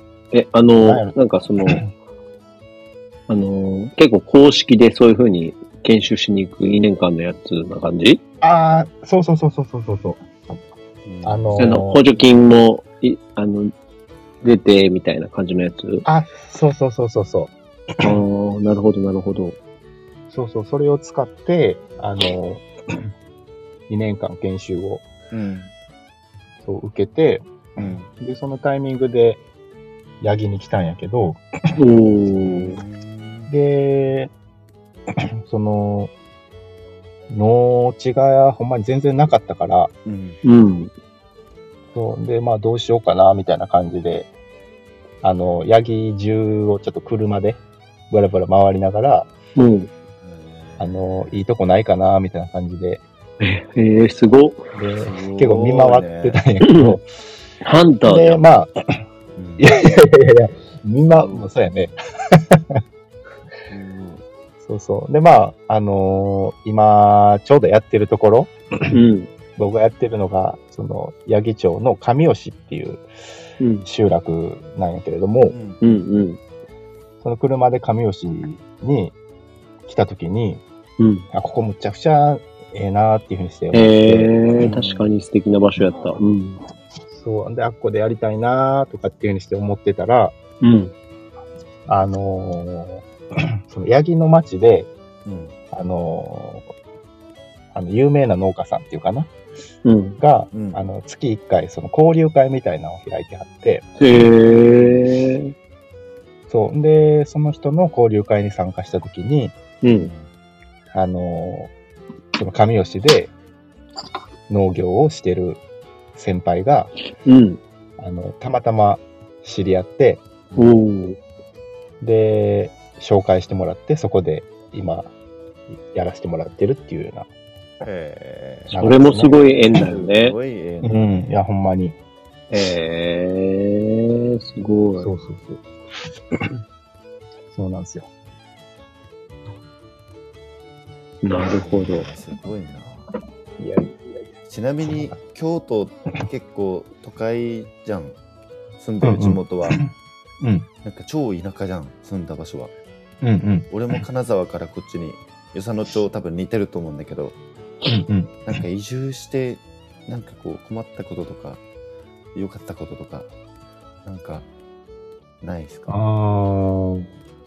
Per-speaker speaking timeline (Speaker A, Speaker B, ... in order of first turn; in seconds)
Speaker A: 0.3-1.9, 3.3-8.2, 11.6-13.7, 14.4-16.1, 18.0-19.6, 31.8-32.8, 40.4-40.9, 49.6-49.9, 53.4-54.6, 56.6-57.0, 57.6-58.4, 68.9-69.3, 73.6-73.9, 75.8-76.4, 81.0-81.2, 83.7-86.6, 90.6-90.9, 99.8-100.2, 104.0-105.5, 109.8-110.1, 117.2-117.6, 120.6-121.2, 128.8-130.4, 132.5-135.1, 141.2-142.1
Speaker B: 0.8-1.1, 8.4-10.2, 11.2-12.0, 16.1-18.2, 20.3-22.7, 23.9-25.1, 26.6-29.4, 30.2-31.4, 33.5-34.3, 35.5-36.1, 37.3-39.9, 41.9-44.3, 45.2-49.3, 50.8-53.0, 54.8-57.1, 58.0-58.7, 59.6-62.8, 64.6-68.9, 69.6-73.0, 73.8-75.6, 77.2-79.2, 79.9-80.6, 81.3-84.3, 87.1-90.3, 91.9-93.0, 93.7-94.9, 95.7-96.7, 97.7-99.3, 100.2-103.9, 106.5-109.5, 110.9-111.7, 112.3-113.3, 114.5-115.6, 116.2-116.9, 118.0-120.2, 122.0-125.1, 125.8-127.3, 128.7-129.4, 130.8-132.0, 135.0-135.6, 137.5-138.1, 143.6-144.3, 144.8-145.2, 149.0-150.7, 153.2-153.7, 157.8-158.6, 165.9-167.1
Speaker C: 11.1-11.8, 25.3-25.7, 27.8-28.1, 32.4-33.5, 40.1-40.4, 50.2-51.4, 55.0-56.4, 59.4-59.7, 63.7-64.2, 75.5-75.8, 84.6-85.1, 85.9-86.2, 95.2-95.5, 100.5-100.8, 104.5-105.0, 110.0-110.3, 127.8-131.4, 141.5-143.0, 144.5-148.2, 148.8-149.8, 150.8-152.7, 153.7-157.4, 158.5-161.6, 162.3-163.3, 164.1-164.5, 165.4-166.0